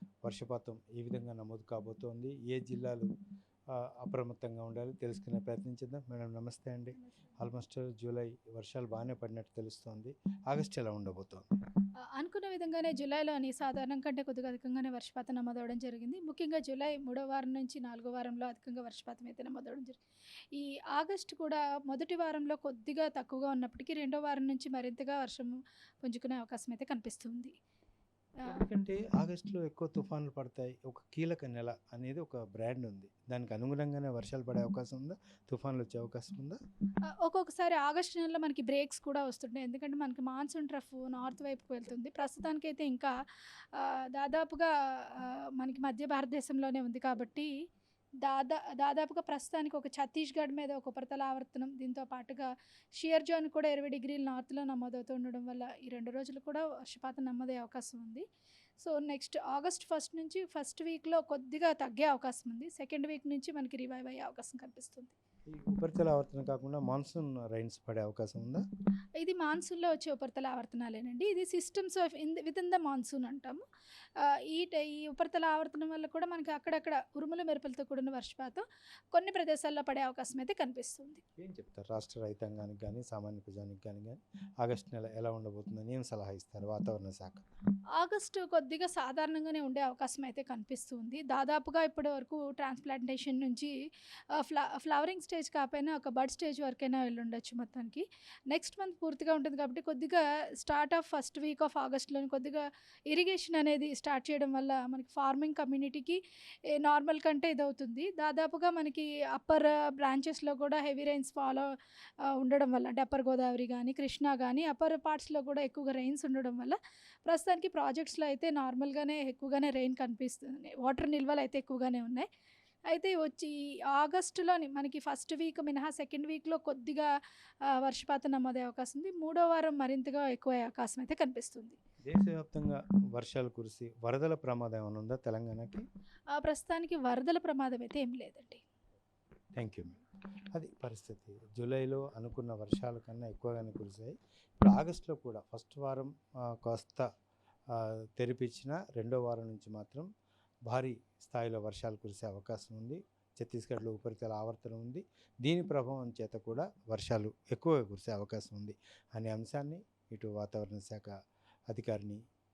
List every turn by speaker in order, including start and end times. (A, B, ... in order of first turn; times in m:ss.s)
0:00.2-0:03.1 A
0:04.0-0:11.5 A
0:12.1-0:20.0 B
0:20.5-0:27.5 B
0:28.4-0:36.6 A
0:37.1-0:47.5 B
0:48.2-0:58.2 B
0:58.8-1:05.1 B
1:05.5-1:08.6 A
1:09.2-1:13.6 B
1:14.2-1:21.2 B
1:21.4-1:27.4 A
1:28.0-1:33.7 B
1:34.3-1:51.7 B
1:52.2-2:02.3 B
2:02.9-2:07.1 B
2:07.7-2:11.8 B
2:12.0-2:15.8 A
2:16.3-2:18.6 B
2:19.6-2:20.0 A
2:20.5-2:27.0 A
2:27.7-2:30.1 A
2:30.6-2:41.1 A
2:41.7-2:42.2 A